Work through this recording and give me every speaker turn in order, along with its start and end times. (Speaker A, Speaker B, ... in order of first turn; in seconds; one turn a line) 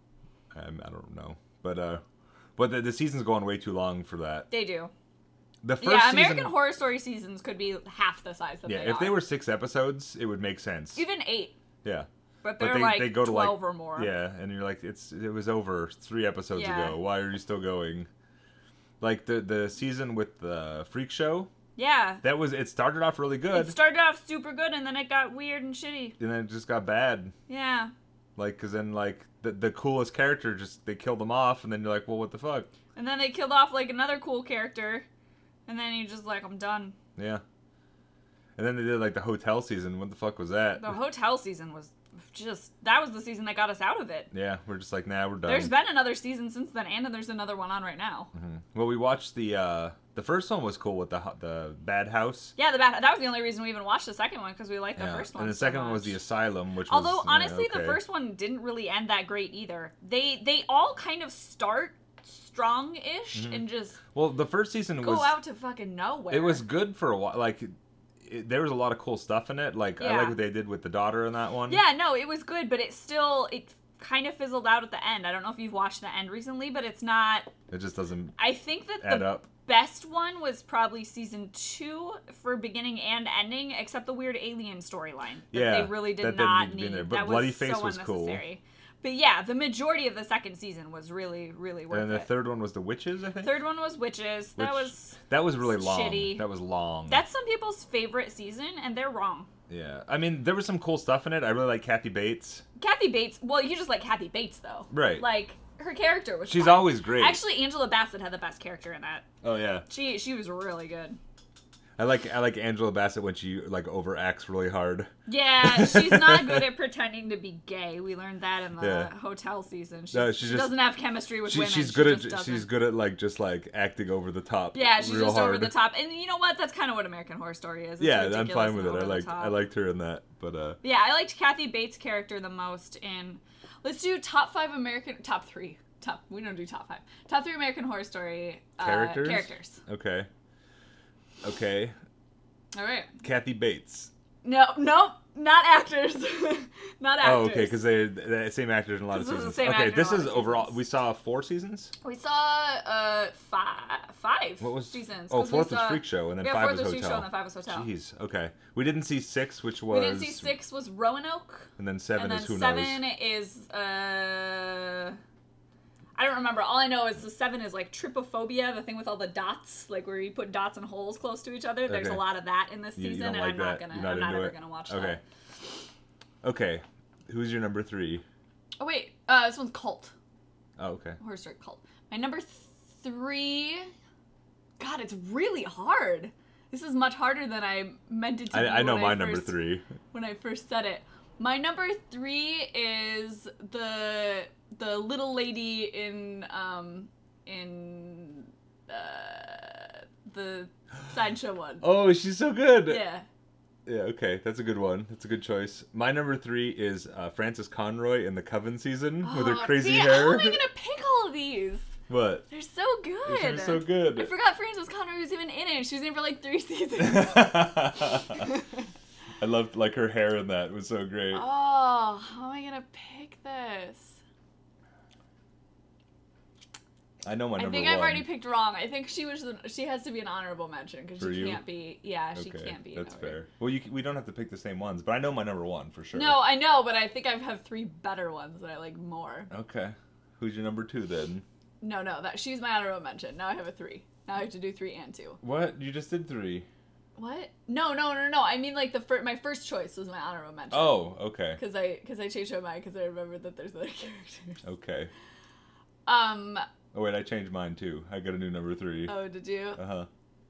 Speaker A: 0.5-2.0
Speaker A: 2.5-4.5
Speaker B: 4.5-4.9
Speaker A: 5.6-6.5
Speaker B: 5.8-9.2
Speaker A: 8.6-11.0
Speaker B: 10.9-11.6
Speaker A: 11.8-18.1
Speaker B: 12.4-14.1
Speaker B: 16.5-17.0
Speaker A: 19.0-21.5
Speaker B: 21.8-22.2
Speaker A: 22.2-23.8
Speaker B: 23.5-26.2
Speaker A: 26.2-27.3
Speaker B: 27.5-27.9
Speaker A: 28.4-32.7
Speaker B: 33.0-35.0
Speaker B: 35.7-37.0
Speaker A: 37.1-37.4
Speaker A: 38.5-41.0
Speaker B: 40.8-44.3
Speaker A: 44.3-45.7
Speaker B: 45.4-48.3
Speaker A: 48.3-52.5
Speaker B: 52.6-56.2
Speaker A: 55.0-58.0
Speaker B: 56.9-64.0
Speaker A: 63.3-65.3
Speaker B: 65.0-66.6
Speaker A: 66.3-67.7
Speaker A: 68.2-71.8
Speaker B: 70.0-70.4
Speaker B: 71.7-77.5
Speaker A: 77.7-78.4
Speaker B: 78.4-92.3
Speaker A: 79.0-79.5
Speaker A: 85.5-88.4
Speaker A: 91.9-93.6
Speaker B: 93.4-96.4
Speaker A: 94.6-97.2
Speaker B: 97.1-99.5
Speaker A: 99.7-102.6
Speaker B: 102.8-109.2
Speaker A: 104.9-105.2
Speaker A: 106.5-107.4
Speaker A: 109.4-109.9
Speaker B: 109.9-111.2
Speaker A: 112.0-115.1
Speaker B: 115.3-122.7
Speaker A: 115.6-116.7
Speaker A: 118.8-119.1
Speaker A: 120.1-120.8
Speaker A: 121.4-125.8
Speaker B: 124.7-129.6
Speaker A: 128.0-130.8
Speaker B: 130.8-139.8
Speaker A: 138.8-140.3
Speaker A: 141.4-141.9
Speaker B: 142.7-143.1
Speaker A: 143.2-144.1
Speaker B: 144.4-147.8
Speaker A: 147.2-151.9
Speaker B: 149.1-150.7
Speaker B: 152.0-157.9
Speaker A: 154.6-160.5
Speaker B: 159.9-165.2
Speaker A: 161.8-163.0
Speaker B: 166.2-175.2
Speaker A: 171.9-172.2
Speaker A: 172.9-175.2
Speaker A: 176.4-178.2
Speaker B: 178.8-180.1
Speaker A: 180.8-181.2
Speaker B: 181.2-183.9
Speaker B: 184.8-189.6
Speaker A: 188.5-189.8
Speaker B: 190.1-201.8
Speaker A: 201.8-203.0
Speaker B: 202.9-203.2
Speaker A: 203.8-210.6
Speaker B: 209.2-211.9
Speaker A: 212.1-212.4
Speaker B: 212.5-218.6
Speaker A: 213.2-214.3
Speaker A: 217.0-218.4
Speaker A: 219.4-221.4
Speaker B: 221.3-224.2
Speaker A: 227.2-228.3
Speaker B: 227.6-233.4
Speaker A: 231.2-231.6
Speaker A: 232.3-236.4
Speaker B: 236.1-239.5
Speaker A: 239.5-241.4
Speaker B: 241.8-245.4
Speaker A: 245.4-246.7
Speaker B: 247.2-254.6
Speaker A: 250.7-251.6
Speaker A: 254.6-255.1
Speaker B: 256.1-256.6
Speaker A: 256.9-259.2
Speaker B: 259.1-259.8
Speaker A: 259.8-260.1